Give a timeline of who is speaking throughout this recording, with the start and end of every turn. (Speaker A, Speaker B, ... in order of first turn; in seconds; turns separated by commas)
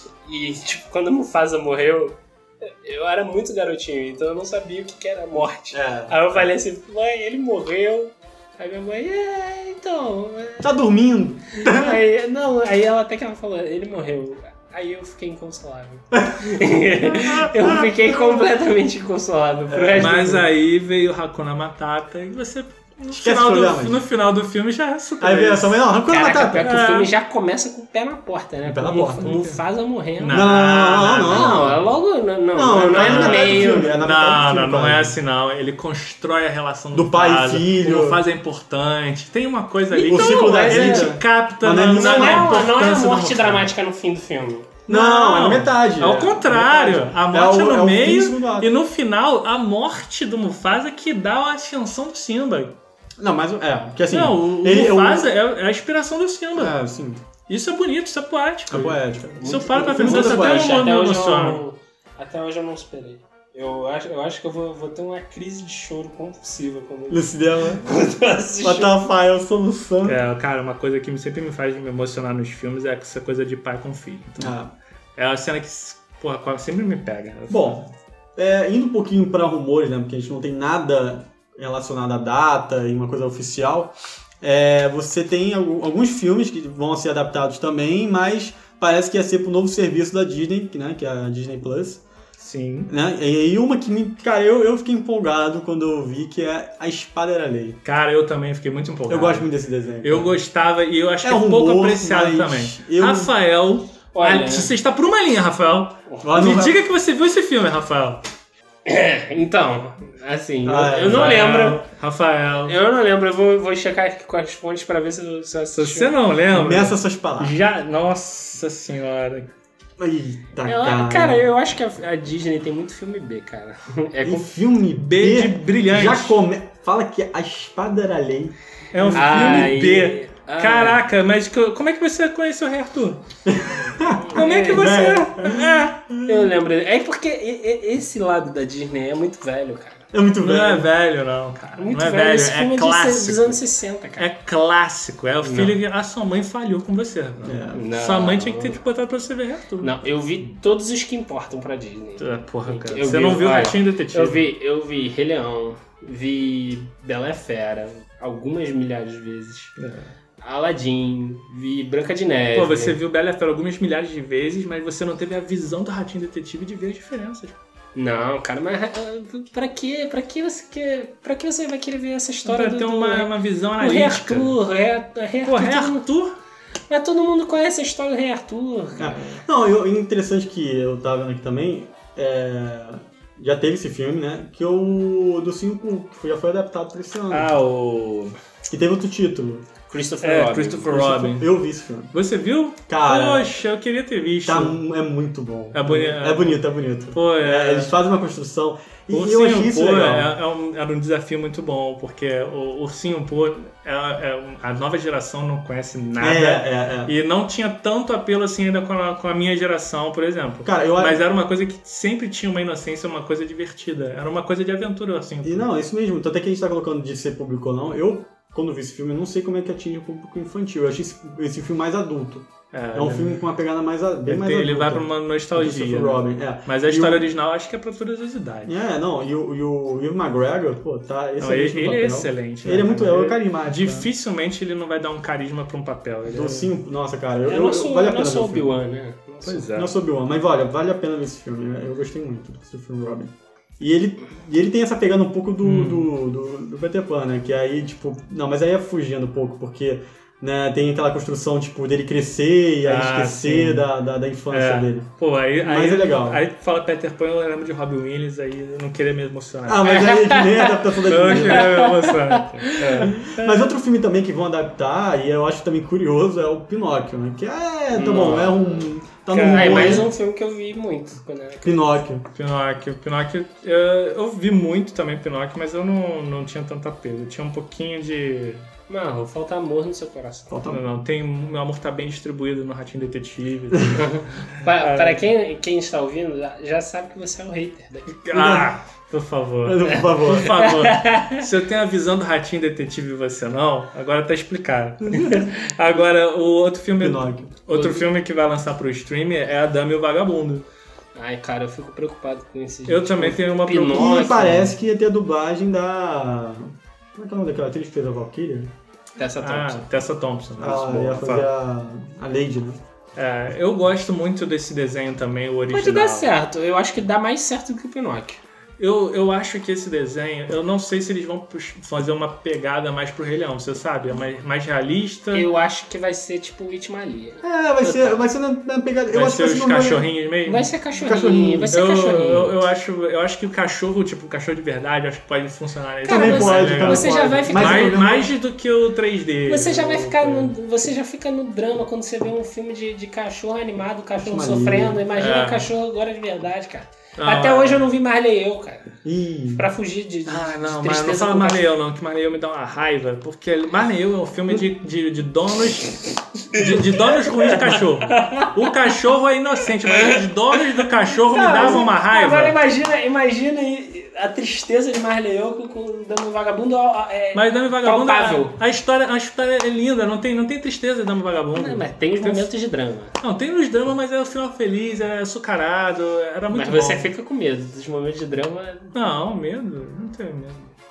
Speaker A: 0.2-10.7, Speaker B: 5.7-6.3, Speaker B: 10.6-12.0, Speaker A: 11.5-20.4, Speaker B: 19.7-20.4, Speaker C: 20.0-25.8, Speaker B: 23.1-24.0, Speaker B: 25.2-26.6, Speaker A: 26.1-30.5, Speaker C: 26.6-27.1, Speaker B: 28.6-29.3, Speaker C: 29.2-29.6, Speaker C: 30.2-31.8, Speaker B: 30.3-31.8, Speaker A: 31.2-34.0, Speaker B: 32.5-35.1, Speaker C: 32.9-43.7, Speaker B: 36.9-38.2, Speaker A: 39.9-41.1, Speaker B: 40.1-42.6, Speaker A: 41.9-44.7, Speaker B: 44.9-48.8, Speaker C: 44.9-52.8, Speaker B: 53.2-55.3, Speaker C: 54.1-56.7, Speaker B: 56.6-57.2, Speaker C: 57.5-61.6, Speaker B: 58.7-60.8, Speaker A: 59.4-69.0, Speaker B: 67.1-67.8, Speaker B: 68.6-70.2, Speaker C: 70.0-74.5, Speaker B: 74.4-74.7, Speaker C: 75.2-77.9, Speaker B: 77.5-92.0, Speaker C: 92.4-92.9, Speaker B: 92.9-97.8, Speaker C: 97.8-99.5, Speaker B: 99.1-100.4, Speaker C: 100.0-108.2, Speaker B: 101.2-103.3, Speaker A: 104.1-104.7, Speaker B: 106.2-106.8, Speaker A: 108.8-111.8, Speaker B: 110.6-111.4, Speaker C: 111.0-112.8, Speaker A: 112.7-116.1, Speaker C: 115.8-119.5, Speaker B: 116.5-117.5, Speaker B: 120.0-121.5, Speaker A: 120.6-124.5, Speaker B: 124.2-129.8, Speaker C: 125.0-126.4, Speaker C: 128.9-133.2, Speaker A: 129.1-131.0, Speaker B: 133.4-136.5, Speaker A: 133.8-134.9, Speaker C: 134.3-136.0, Speaker A: 136.2-140.1, Speaker B: 140.1-140.9, Speaker C: 140.4-143.6, Speaker A: 141.8-144.3, Speaker C: 144.2-150.5, Speaker A: 145.4-145.8, Speaker B: 147.4-147.8, Speaker A: 147.7-148.8, Speaker A: 149.8-159.7, Speaker C: 152.2-154.4, Speaker C: 159.8-160.1, Speaker A: 160.4-163.0, Speaker C: 162.5-167.6, Speaker A: 167.9-176.0, Speaker C: 172.4-174.6, Speaker C: 175.4-176.3, Speaker A: 176.9-179.4, Speaker B: 179.0-187.5, Speaker C: 187.3-188.3, Speaker B: 188.7-189.6, Speaker A: 189.9-191.2, Speaker C: 190.2-191.5, Speaker B: 191.1-192.1, Speaker C: 192.1-194.8, Speaker B: 192.9-193.5, Speaker B: 194.4-200.3, Speaker C: 195.7-197.9, Speaker C: 199.1-215.7, Speaker B: 206.2-207.1, Speaker B: 210.6-211.2, Speaker B: 215.4-227.2, Speaker C: 222.7-223.5, Speaker C: 224.2-228.7, Speaker B: 228.6-234.1, Speaker C: 231.4-236.7, Speaker B: 236.2-238.7, Speaker A: 237.5-239.7, Speaker C: 239.4-239.9, Speaker B: 239.7-255.1, Speaker C: 245.6-246.1, Speaker C: 252.8-253.9, Speaker C: 254.5-260.3, Speaker B: 255.6-256.4, Speaker B: 259.7-261.8, Speaker A: 259.9-260.7, Speaker C: 261.0-263.6, Speaker A: 261.3-263.1, Speaker B: 263.1-270.1, Speaker A: 267.9-268.7, Speaker C: 269.3-270.1, Speaker A: 269.4-272.0, Speaker B: 271.6-272.3, Speaker C: 272.3-278.7, Speaker A: 278.9-280.6, Speaker B: 280.5-280.8, Speaker C: 280.7-285.2, Speaker A: 284.0-288.2, Speaker C: 288.2-300.6, Speaker B: 288.3-288.7, Speaker B: 289.6-290.5, Speaker A: 289.9-291.4, Speaker B: 295.1-295.4, Speaker B: 297.0-297.5, Speaker A: 297.7-298.1, Speaker A: 301.1-304.7, Speaker C: 302.9-304.6, Speaker B: 303.9-308.7, Speaker A: 309.2-309.9, Speaker C: 309.4-311.5, Speaker B: 310.6-312.8, Speaker C: 313.1-316.3, Speaker A: 315.7-318.4, Speaker C: 318.8-325.5, Speaker A: 325.3-328.3, Speaker B: 327.4-330.1, Speaker C: 329.1-331.1, Speaker A: 330.4-332.5, Speaker B: 331.0-331.8, Speaker C: 331.7-340.5, Speaker A: 336.1-338.0, Speaker B: 336.1-338.3, Speaker A: 339.5-348.9, Speaker B: 344.1-345.0, Speaker C: 345.1-345.7, Speaker C: 347.2-347.9, Speaker B: 349.0-349.6, Speaker A: 349.6-351.7, Speaker C: 350.3-362.6, Speaker A: 356.5-358.5, Speaker A: 361.3-368.6, Speaker C: 367.3-372.5, Speaker A: 371.5-373.1, Speaker C: 373.2-377.1, Speaker A: 376.5-378.9, Speaker C: 378.9-380.7